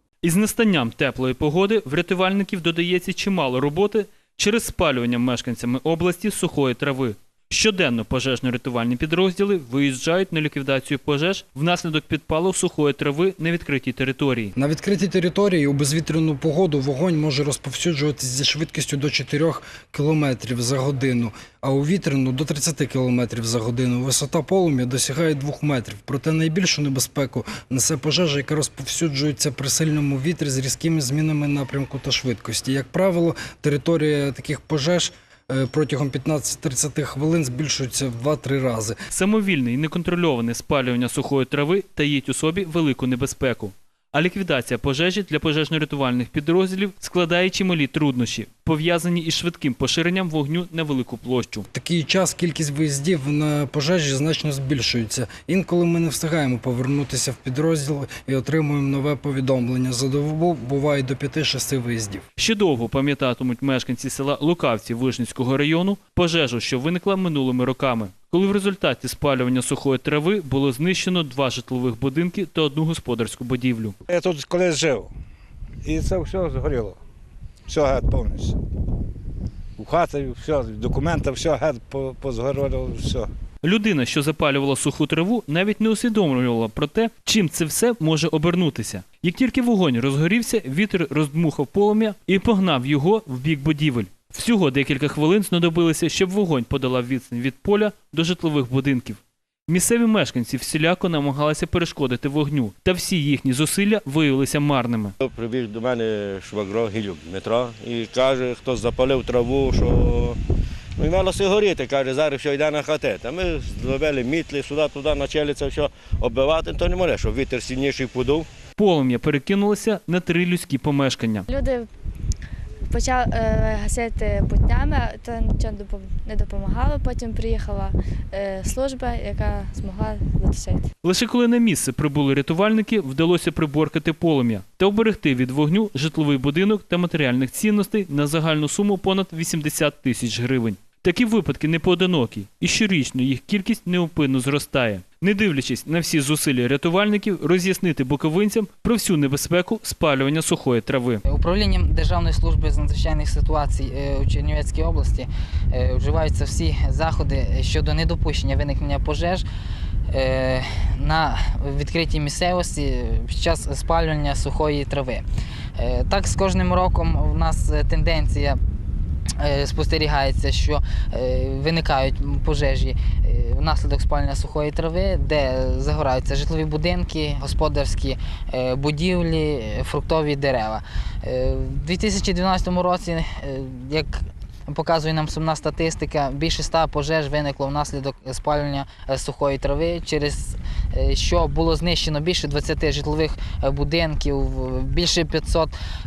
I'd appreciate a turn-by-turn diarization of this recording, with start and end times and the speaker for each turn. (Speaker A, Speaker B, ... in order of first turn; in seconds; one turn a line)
Speaker A: 0.2-14.5
Speaker B: 14.6-38.9
Speaker A: 39.1-51.7
Speaker B: 51.7-62.2
Speaker A: 62.4-74.0
Speaker C: 74.0-75.1
Speaker C: 75.8-77.0
Speaker C: 77.7-78.6
Speaker C: 79.8-83.3
Speaker A: 83.6-105.1
Speaker D: 105.2-110.4
Speaker D: 111.0-118.5
Speaker A: 118.8-121.5
Speaker E: 121.5-121.9
Speaker E: 122.9-130.8
Speaker A: 131.0-151.2
Speaker F: 151.2-159.4
Speaker F: 160.1-165.2
Speaker F: 165.8-168.6
Speaker F: 169.4-195.7